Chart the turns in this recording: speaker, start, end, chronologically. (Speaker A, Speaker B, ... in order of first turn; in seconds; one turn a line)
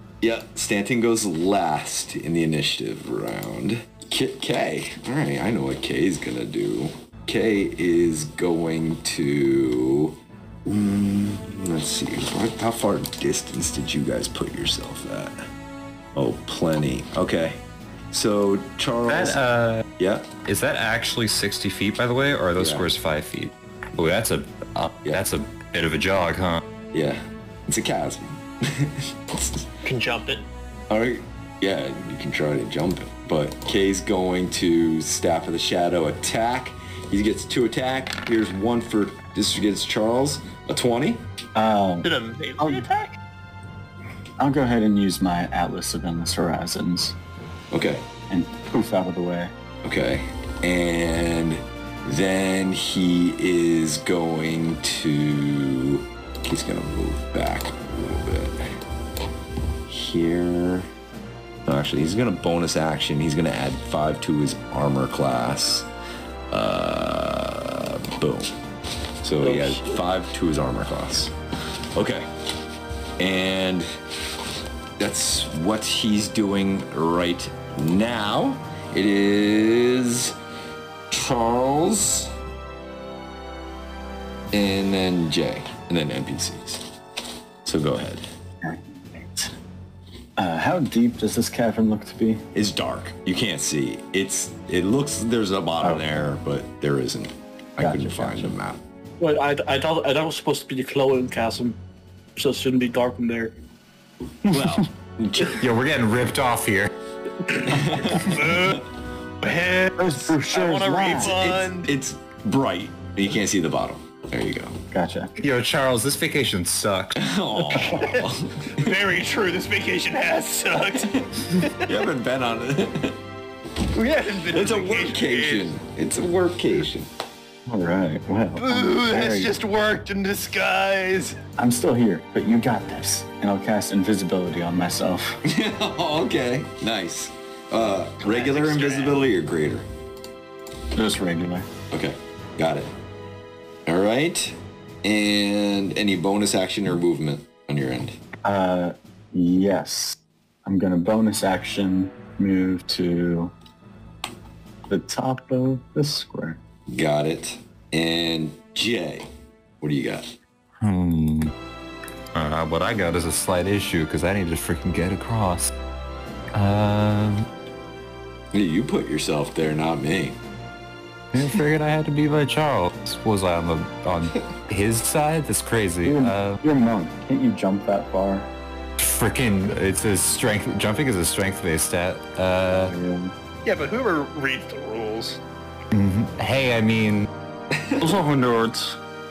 Speaker A: 0.2-15.5
Speaker A: 16.1-19.4
Speaker B: 19.1-19.9
Speaker A: 20.0-20.3
Speaker B: 20.4-26.6
Speaker A: 22.6-22.9
Speaker A: 26.9-29.7
Speaker C: 29.9-30.4
Speaker A: 30.9-41.3
Speaker D: 41.5-42.1
Speaker C: 42.0-43.2
Speaker D: 42.6-42.9
Speaker D: 44.4-47.2
Speaker A: 47.7-48.1
Speaker D: 48.3-49.5
Speaker A: 49.8-58.7
Speaker A: 59.9-60.9
Speaker A: 61.6-65.9
Speaker A: 66.5-68.6
Speaker A: 69.2-71.3
Speaker E: 69.4-70.0
Speaker A: 71.9-72.3
Speaker A: 73.2-73.9
Speaker A: 75.0-80.4
Speaker A: 81.1-82.3
Speaker A: 84.5-86.9
Speaker A: 87.6-88.3
Speaker D: 88.6-89.5
Speaker D: 90.4-92.5
Speaker A: 92.5-98.8
Speaker D: 95.8-96.2
Speaker D: 97.8-98.5
Speaker E: 99.2-101.8
Speaker E: 102.4-103.5
Speaker A: 104.5-105.7
Speaker B: 105.5-106.9
Speaker A: 107.7-108.2
Speaker C: 107.8-108.9
Speaker C: 109.4-111.9
Speaker D: 110.0-111.4
Speaker A: 111.2-114.8
Speaker D: 114.9-115.3
Speaker B: 115.4-117.2
Speaker A: 117.2-119.0
Speaker C: 118.0-121.1
Speaker A: 121.0-123.2
Speaker C: 123.9-125.7
Speaker A: 124.3-127.1
Speaker D: 127.7-129.6
Speaker C: 128.6-131.4
Speaker D: 131.6-135.4
Speaker A: 135.4-139.9
Speaker C: 138.2-139.2
Speaker D: 140.9-141.7
Speaker A: 141.9-142.9
Speaker A: 143.9-148.2
Speaker D: 148.4-153.5
Speaker D: 154.9-156.6
Speaker A: 156.9-159.3
Speaker A: 159.8-160.3
Speaker B: 160.8-161.5
Speaker B: 162.3-165.7
Speaker B: 166.5-167.5
Speaker A: 168.5-170.4
Speaker B: 171.3-176.6
Speaker D: 176.1-178.5
Speaker B: 179.0-182.9
Speaker D: 182.8-183.3
Speaker C: 183.7-185.4
Speaker B: 185.9-187.3
Speaker A: 187.7-188.2
Speaker E: 188.0-189.0